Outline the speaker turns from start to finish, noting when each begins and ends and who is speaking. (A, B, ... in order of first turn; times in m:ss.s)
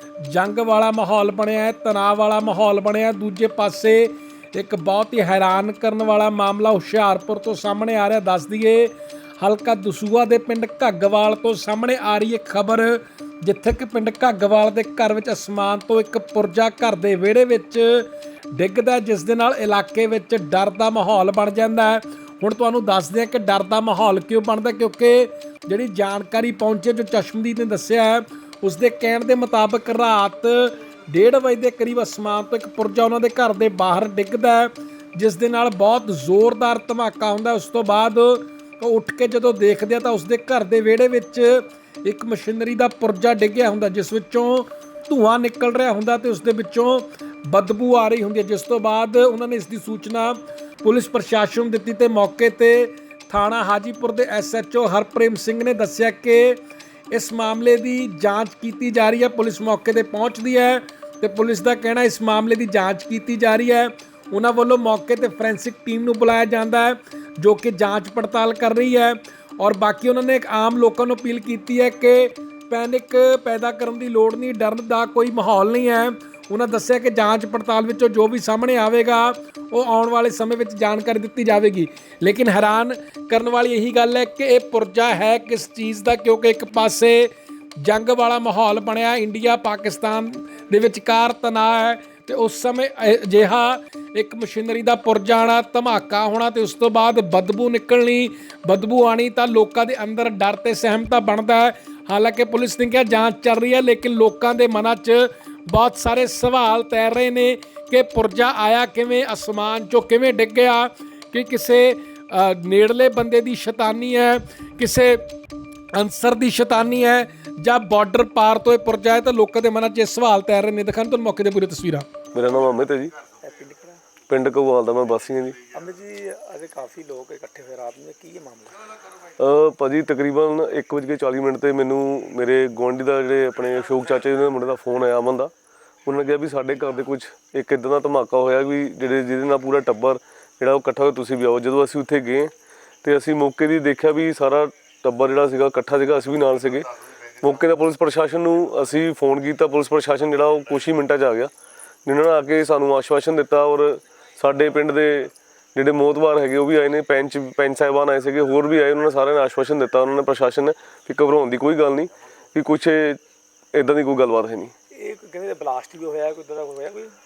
0:00.2-0:56.6 A
0:57.1-1:55.2 A
1:55.9-2:02.1 A
2:02.3-2:03.1 B
2:03.4-2:04.0 C
2:04.3-2:05.6 B
2:05.7-2:08.8 C
2:09.4-2:15.5 B
2:16.0-2:22.5 B
2:23.0-2:31.5 B
2:32.0-2:43.2 B
2:43.7-2:44.7 B
2:44.9-2:47.1 C